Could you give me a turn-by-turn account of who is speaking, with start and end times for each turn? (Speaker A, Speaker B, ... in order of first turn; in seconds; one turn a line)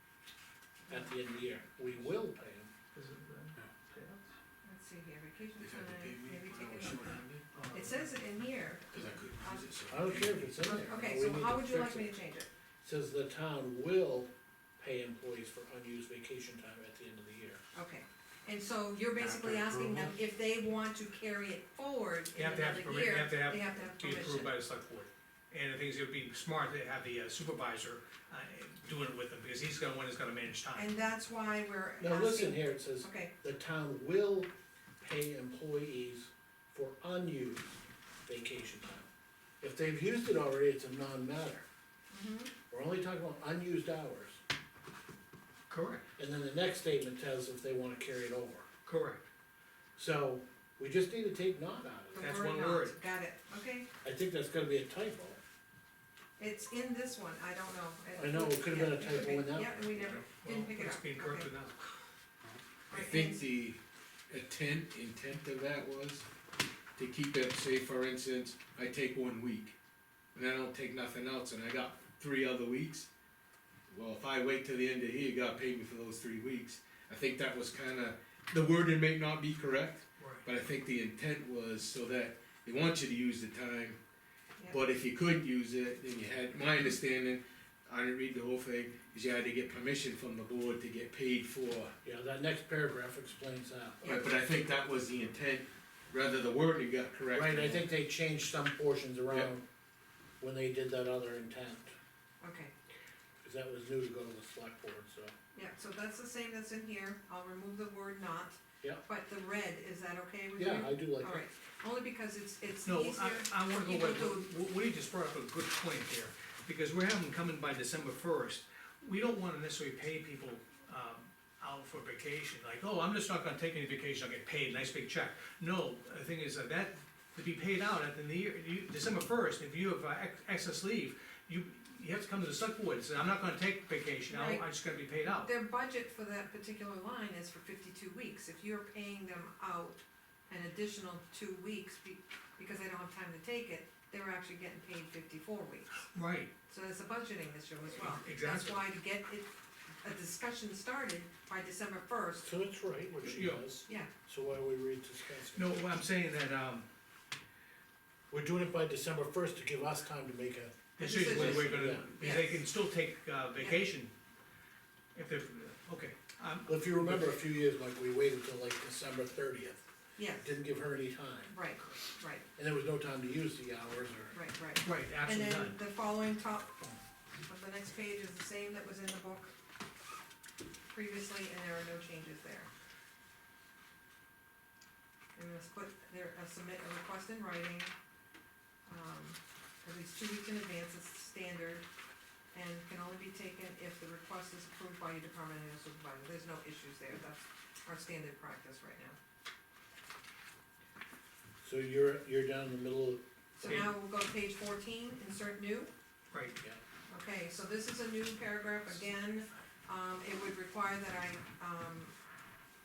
Speaker A: 0.9-1.1
Speaker B: 0.9-2.7
Speaker C: 2.9-4.3
Speaker A: 4.6-9.8
Speaker D: 5.6-7.5
Speaker C: 7.5-8.1
Speaker D: 8.9-10.5
Speaker B: 9.9-12.1
Speaker A: 10.6-12.5
Speaker B: 12.8-17.6
Speaker A: 17.7-24.5
Speaker D: 19.2-20.1
Speaker C: 22.4-30.9
Speaker A: 30.7-33.3
Speaker B: 32.0-34.5
Speaker B: 35.0-37.7
Speaker B: 38.2-39.1
Speaker B: 39.6-41.6
Speaker A: 42.1-42.5
Speaker B: 42.7-44.4
Speaker C: 45.7-46.0
Speaker B: 46.2-48.7
Speaker C: 48.9-49.2
Speaker B: 50.0-52.3
Speaker A: 52.1-53.9
Speaker C: 52.2-53.0
Speaker B: 54.0-55.4
Speaker A: 56.4-61.5
Speaker B: 58.1-60.2
Speaker C: 60.2-62.0
Speaker A: 62.9-63.4
Speaker D: 62.9-66.3
Speaker D: 67.0-69.8
Speaker D: 70.3-73.1
Speaker D: 73.9-84.0
Speaker C: 80.2-80.5
Speaker D: 84.7-92.0
Speaker B: 92.0-94.1
Speaker D: 94.0-97.9
Speaker B: 97.3-99.7
Speaker B: 100.4-102.0
Speaker A: 102.4-102.7
Speaker B: 103.4-105.3
Speaker A: 105.5-114.5
Speaker B: 110.6-111.5
Speaker C: 112.8-135.5
Speaker A: 134.3-134.7
Speaker A: 135.3-146.0
Speaker C: 146.0-146.5
Speaker A: 146.7-149.5
Speaker C: 147.9-148.8
Speaker A: 150.0-152.5
Speaker B: 152.4-155.8
Speaker C: 153.2-153.7
Speaker C: 155.5-156.9
Speaker B: 158.3-162.1
Speaker C: 161.0-164.1
Speaker A: 161.0-162.6
Speaker A: 163.6-163.9
Speaker C: 165.2-167.4
Speaker B: 166.7-169.8
Speaker A: 170.2-170.5
Speaker B: 170.4-171.5
Speaker A: 171.5-172.5
Speaker B: 172.6-174.4
Speaker A: 174.3-176.8
Speaker C: 174.8-175.8
Speaker A: 177.5-179.5
Speaker A: 180.9-182.7
Speaker A: 185.3-187.9
Speaker A: 188.9-191.9
Speaker A: 192.5-199.2
Speaker B: 201.6-203.8
Speaker A: 203.6-205.9
Speaker C: 203.6-203.9
Speaker C: 206.3-206.6
Speaker A: 207.1-212.1